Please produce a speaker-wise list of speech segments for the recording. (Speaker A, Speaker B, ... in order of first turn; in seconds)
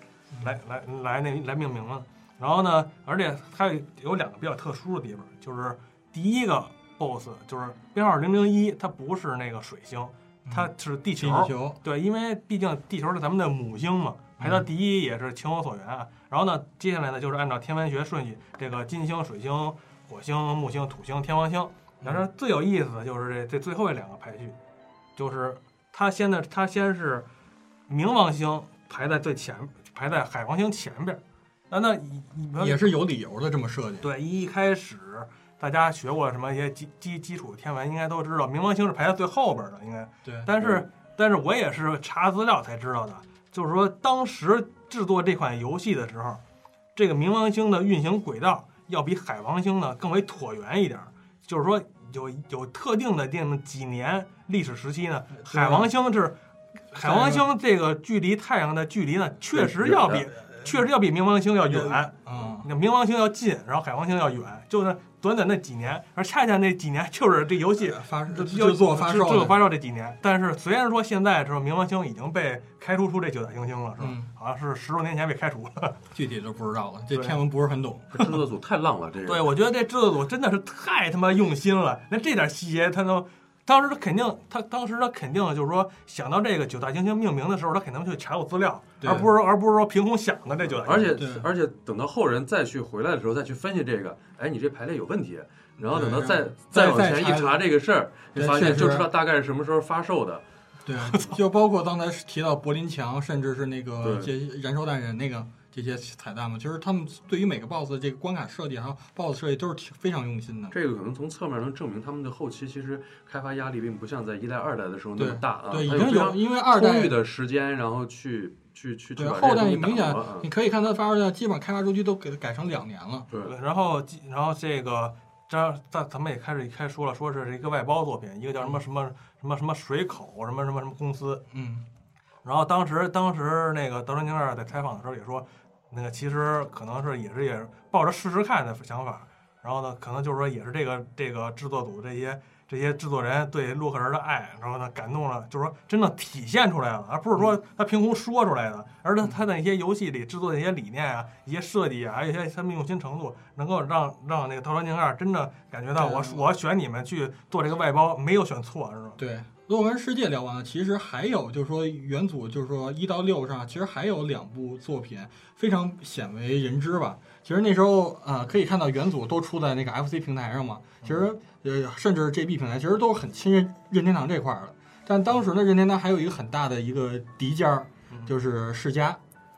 Speaker A: 0.4-24.6, 25.2-27.3, 27.9-32.9, 34.0-46.4, 47.0-56.4, 56.9-76.0, 77.1-77.4, 79.2-91.2, 123.4-131.4, 132.4-159.2
Speaker B: 10.5-11.8, 14.4-14.7, 32.6-34.1, 40.2-40.5, 55.4-55.9, 56.9-57.5, 61.7-62.7, 67.8-69.6, 74.0-74.3, 76.1-78.3, 89.0-89.3, 91.2-91.5, 95.8-97.6, 98.3-99.1, 100.8-110.8, 115.2-117.2, 119.2-123.3, 131.5-131.8, 156.0-156.4, 159.2-179.2
Speaker C: 59.6-60.2, 78.1-79.5, 90.8-100.4, 104.0-104.3, 110.7-120.5